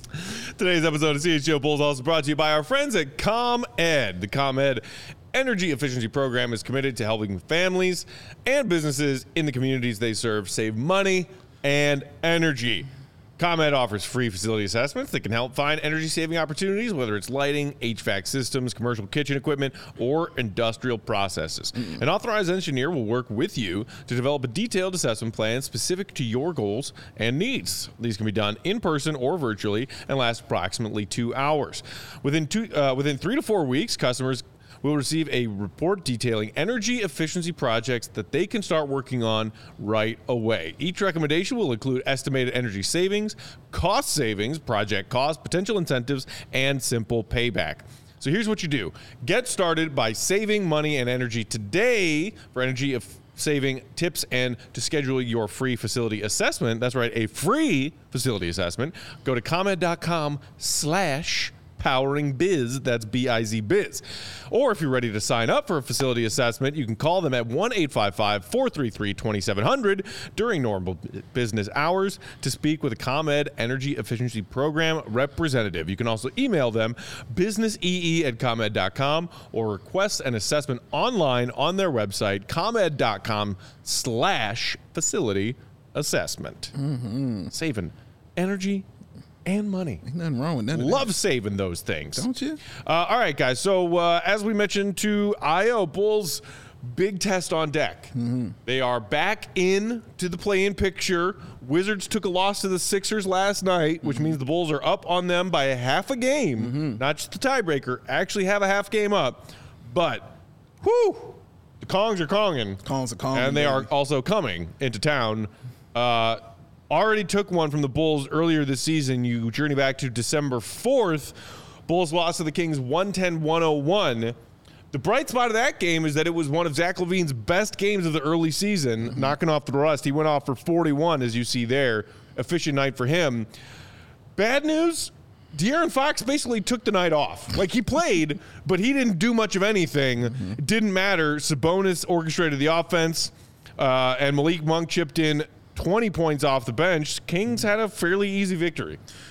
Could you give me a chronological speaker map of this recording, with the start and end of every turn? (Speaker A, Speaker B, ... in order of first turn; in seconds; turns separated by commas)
Speaker A: 0.1-86.7, Speaker B: 86.8-87.5, Speaker A: 87.5-88.8, Speaker A: 89.5-90.0, Speaker B: 90.0-91.1, Speaker A: 90.7-98.1, Speaker B: 92.2-92.6, Speaker B: 98.1-98.5, Speaker A: 98.7-112.8, Speaker B: 104.0-104.4, Speaker B: 106.6-107.0, Speaker B: 112.8-113.9, Speaker A: 113.3-124.3, Speaker A: 124.9-133.5, Speaker A: 134.4-149.0